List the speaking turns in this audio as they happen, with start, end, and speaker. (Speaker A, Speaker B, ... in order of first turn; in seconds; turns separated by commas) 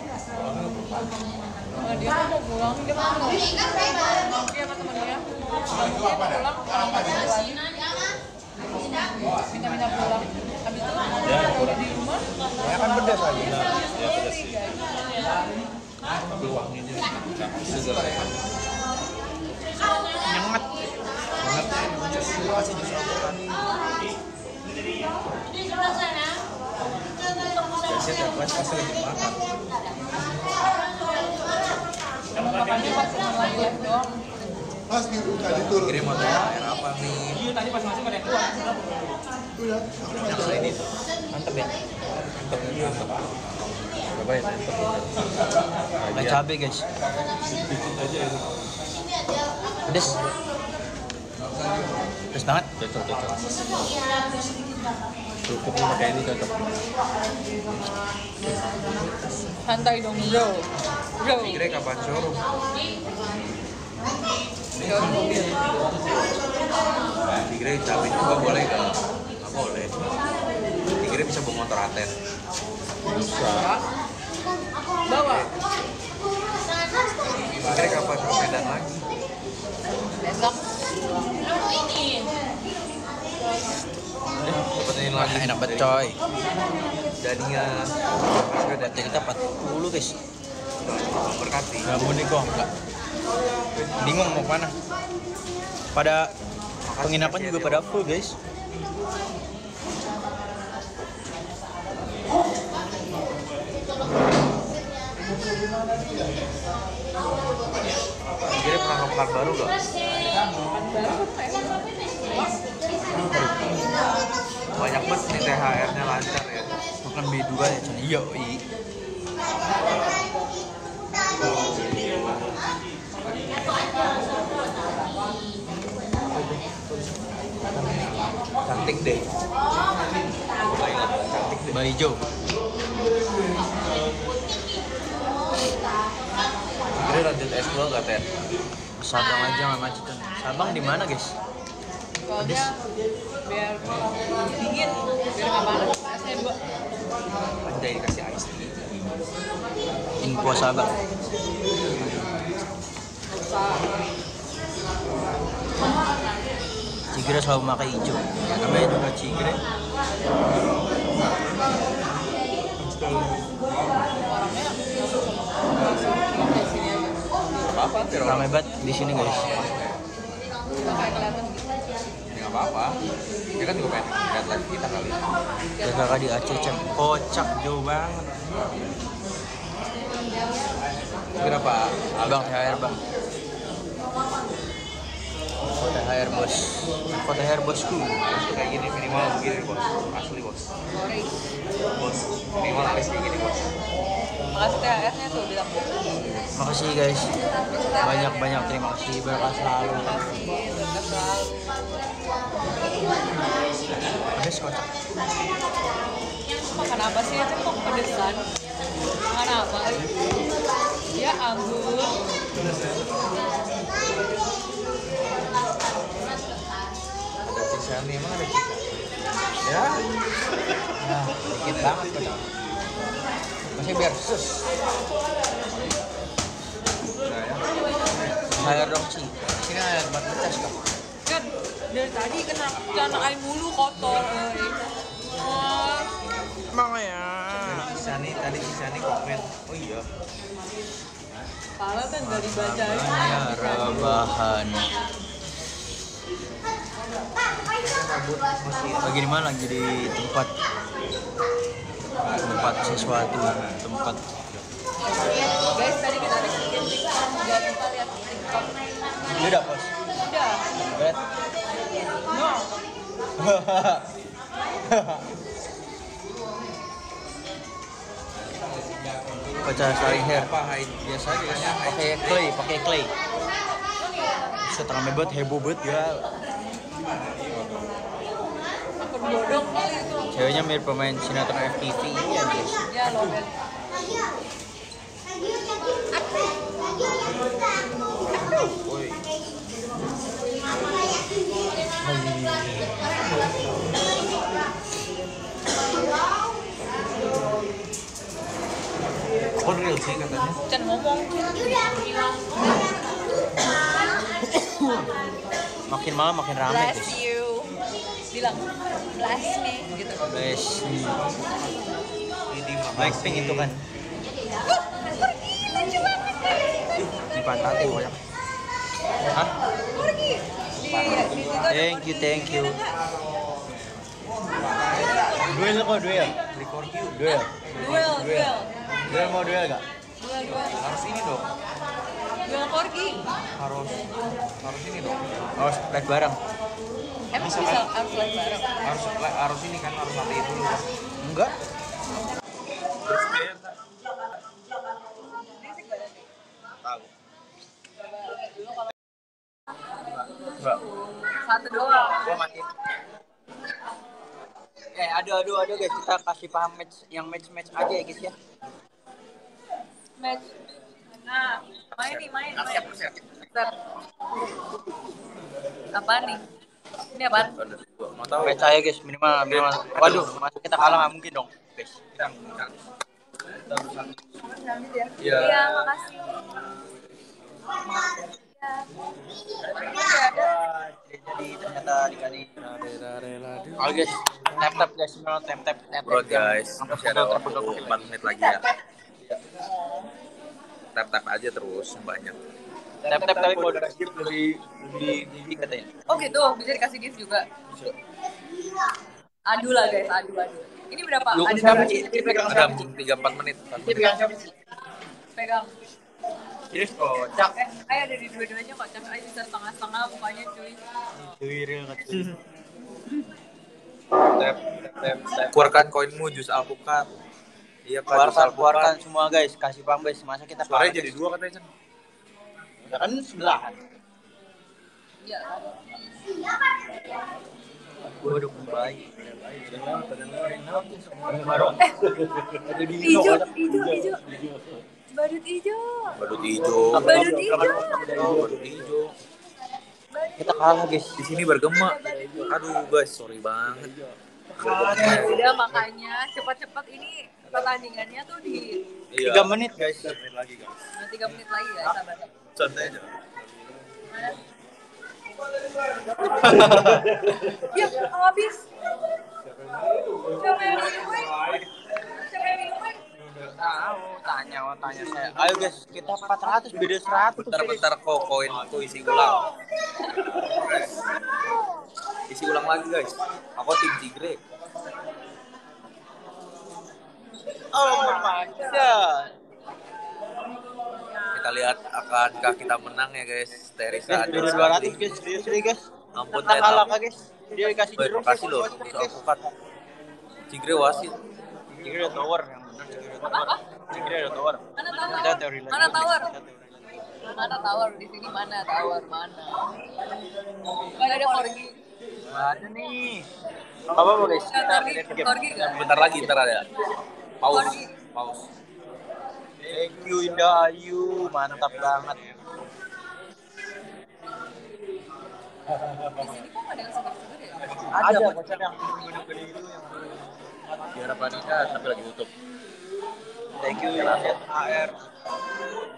Speaker A: 0.4-1.0, Speaker B: 1.8-7.6, Speaker B: 9.3-15.3, Speaker A: 11.2-12.0, Speaker C: 12.6-13.7, Speaker A: 13.4-14.6, Speaker A: 16.3-18.4, Speaker C: 20.2-20.7, Speaker A: 21.4-21.8, Speaker C: 22.3-23.6, Speaker D: 27.9-29.4, Speaker B: 32.3-34.2, Speaker D: 35.4-37.5, Speaker B: 37.9-38.6, Speaker D: 40.1-40.8, Speaker C: 41.3-41.7, Speaker A: 42.3-45.4, Speaker A: 46.0-46.4, Speaker C: 46.1-46.9, Speaker A: 47.4-48.6, Speaker C: 49.9-50.2, Speaker C: 52.3-52.6, Speaker A: 52.8-53.4, Speaker A: 55.5-56.7, Speaker B: 59.6-60.7, Speaker B: 61.2-61.6, Speaker D: 61.4-62.4, Speaker B: 64.8-65.6, Speaker D: 67.5-70.0, Speaker D: 71.0-72.1, Speaker A: 73.0-73.7, Speaker B: 73.5-73.8, Speaker B: 75.1-75.5, Speaker D: 77.5-79.1, Speaker B: 80.2-80.7, Speaker C: 84.4-86.2, Speaker D: 84.7-86.0, Speaker D: 87.2-89.3, Speaker C: 88.8-90.2, Speaker D: 90.8-92.0, Speaker C: 91.8-92.7, Speaker C: 94.0-94.7, Speaker C: 95.9-96.3, Speaker D: 96.8-98.1, Speaker C: 97.0-98.3, Speaker D: 108.5-109.7, Speaker B: 110.7-112.6, Speaker C: 113.0-113.8, Speaker D: 114.8-116.7, Speaker C: 117.0-118.6, Speaker D: 121.4-122.2, Speaker D: 126.3-126.8, Speaker D: 127.7-129.3, Speaker D: 130.6-131.8, Speaker C: 131.7-132.2, Speaker D: 136.9-138.3, Speaker C: 139.0-141.3, Speaker B: 142.2-142.7, Speaker C: 142.4-142.7, Speaker B: 143.4-146.6, Speaker D: 147.6-149.0, Speaker C: 150.2-150.9, Speaker B: 153.4-153.8, Speaker C: 157.1-159.6, Speaker B: 164.3-168.4, Speaker D: 167.6-170.0, Speaker C: 168.2-169.7, Speaker B: 170.8-171.9, Speaker D: 172.2-173.0, Speaker D: 173.6-175.2, Speaker B: 175.8-176.2, Speaker C: 175.8-178.1, Speaker D: 181.3-182.9, Speaker C: 182.2-183.0, Speaker C: 185.7-188.2, Speaker D: 188.2-190.7, Speaker B: 190.9-191.3, Speaker D: 192.0-193.6, Speaker B: 194.5-196.0, Speaker C: 196.6-197.3, Speaker B: 197.7-202.1, Speaker C: 198.0-200.2, Speaker C: 204.3-204.9, Speaker B: 206.6-208.4, Speaker B: 209.3-210.1, Speaker B: 211.1-212.1, Speaker D: 217.4-219.0, Speaker D: 219.6-220.0, Speaker C: 221.0-222.4, Speaker D: 221.8-222.3, Speaker C: 223.7-224.6, Speaker D: 227.2-227.6, Speaker D: 228.2-228.9, Speaker C: 228.5-230.8, Speaker B: 231.2-236.1, Speaker C: 236.7-237.9, Speaker D: 237.5-240.0, Speaker B: 241.8-244.0, Speaker C: 242.2-244.9, Speaker D: 243.8-244.3, Speaker D: 247.8-249.1, Speaker C: 249.0-250.5, Speaker C: 252.4-254.2, Speaker B: 255.6-258.8, Speaker C: 259.2-259.9, Speaker B: 260.2-260.6, Speaker C: 260.7-261.2, Speaker B: 262.3-262.7, Speaker C: 263.4-264.1, Speaker C: 264.8-265.3, Speaker D: 269.3-272.6, Speaker C: 269.6-270.5, Speaker C: 271.3-273.1, Speaker C: 274.6-276.2, Speaker B: 279.0-280.3, Speaker C: 280.3-283.3, Speaker B: 282.9-283.5, Speaker D: 288.3-289.2, Speaker C: 292.0-292.9, Speaker D: 299.6-300.6, Speaker B: 300.7-301.8, Speaker C: 304.7-305.0, Speaker C: 305.9-307.2, Speaker B: 306.6-307.8, Speaker B: 308.3-310.3, Speaker C: 310.2-311.2, Speaker D: 312.5-313.7, Speaker C: 312.9-313.8, Speaker B: 314.9-316.8, Speaker D: 317.0-318.1, Speaker C: 317.3-318.1, Speaker C: 319.3-319.5, Speaker B: 319.9-322.9, Speaker D: 320.9-321.5, Speaker C: 321.7-322.8, Speaker B: 324.9-325.5, Speaker C: 325.4-326.4, Speaker D: 326.5-327.1, Speaker C: 327.1-327.5, Speaker B: 327.3-328.7, Speaker D: 327.7-328.6, Speaker C: 329.0-329.8, Speaker B: 330.2-330.8, Speaker D: 330.6-331.5, Speaker B: 332.4-333.2, Speaker D: 333.6-334.1, Speaker D: 334.6-335.5, Speaker C: 335.6-336.4, Speaker B: 337.3-338.7, Speaker D: 337.3-337.9, Speaker D: 338.8-340.9, Speaker C: 341.2-341.6, Speaker D: 343.0-343.6, Speaker B: 345.4-346.3, Speaker B: 348.0-348.9, Speaker B: 351.3-352.4, Speaker C: 352.1-352.7, Speaker C: 354.9-358.3, Speaker B: 360.2-360.6, Speaker B: 361.2-363.7, Speaker D: 361.9-363.1, Speaker B: 365.9-366.4, Speaker B: 367.1-367.6, Speaker D: 367.6-368.7, Speaker C: 368.4-372.2, Speaker D: 369.5-370.9, Speaker D: 372.2-372.7, Speaker D: 373.7-374.1, Speaker B: 374.5-376.4, Speaker D: 375.2-375.9, Speaker B: 379.8-380.5, Speaker C: 379.9-382.6, Speaker D: 382.6-384.2, Speaker C: 383.8-388.1, Speaker D: 386.0-388.6, Speaker D: 390.9-392.4, Speaker D: 393.0-394.4, Speaker C: 393.0-395.9, Speaker B: 396.1-397.5, Speaker B: 399.5-402.5, Speaker C: 401.3-402.9, Speaker D: 402.4-404.1, Speaker C: 403.9-404.4, Speaker B: 405.3-405.7, Speaker C: 406.7-407.5, Speaker B: 407.6-410.8, Speaker C: 411.1-412.3, Speaker D: 414.3-414.8, Speaker C: 414.7-415.8, Speaker D: 415.4-417.1, Speaker D: 417.8-418.9, Speaker C: 418.1-421.2, Speaker D: 420.6-421.7, Speaker C: 422.9-423.8, Speaker B: 425.2-425.8, Speaker C: 428.2-431.8, Speaker D: 429.3-430.3, Speaker A: 429.7-430.1, Speaker D: 431.4-431.7, Speaker C: 432.6-434.1, Speaker B: 433.0-434.2, Speaker B: 435.1-436.2, Speaker D: 436.2-439.1, Speaker C: 436.9-438.6, Speaker B: 437.0-438.0, Speaker A: 438.2-438.7, Speaker B: 440.1-440.9, Speaker C: 440.4-441.3, Speaker D: 441.1-443.9, Speaker B: 441.7-442.5, Speaker C: 444.6-445.3, Speaker D: 444.6-445.4, Speaker B: 444.6-448.8, Speaker D: 449.1-450.8, Speaker C: 449.1-450.2, Speaker B: 450.9-452.3, Speaker D: 452.6-453.1, Speaker B: 454.1-454.4, Speaker C: 456.3-457.2, Speaker D: 456.4-457.4, Speaker B: 457.6-458.6, Speaker B: 460.3-463.0, Speaker C: 463.6-467.8, Speaker D: 467.3-469.5, Speaker D: 470.1-470.9, Speaker D: 472.3-474.4, Speaker C: 477.7-479.3, Speaker D: 481.3-485.1, Speaker C: 484.1-489.5, Speaker D: 486.1-486.9, Speaker D: 487.9-489.1, Speaker D: 490.5-491.1, Speaker C: 491.7-497.0, Speaker B: 493.2-493.6, Speaker B: 494.8-496.3, Speaker B: 497.3-499.7, Speaker B: 500.9-501.7, Speaker C: 502.3-503.3, Speaker C: 503.9-506.3, Speaker B: 504.4-505.9, Speaker D: 505.6-506.7, Speaker D: 507.4-508.5, Speaker B: 507.5-507.9, Speaker C: 509.6-512.2, Speaker D: 511.9-512.2, Speaker C: 515.7-516.3, Speaker B: 516.2-517.7, Speaker D: 517.8-518.7, Speaker C: 517.9-520.2, Speaker C: 520.7-521.0, Speaker D: 520.9-522.3, Speaker C: 523.6-524.9, Speaker D: 524.0-524.2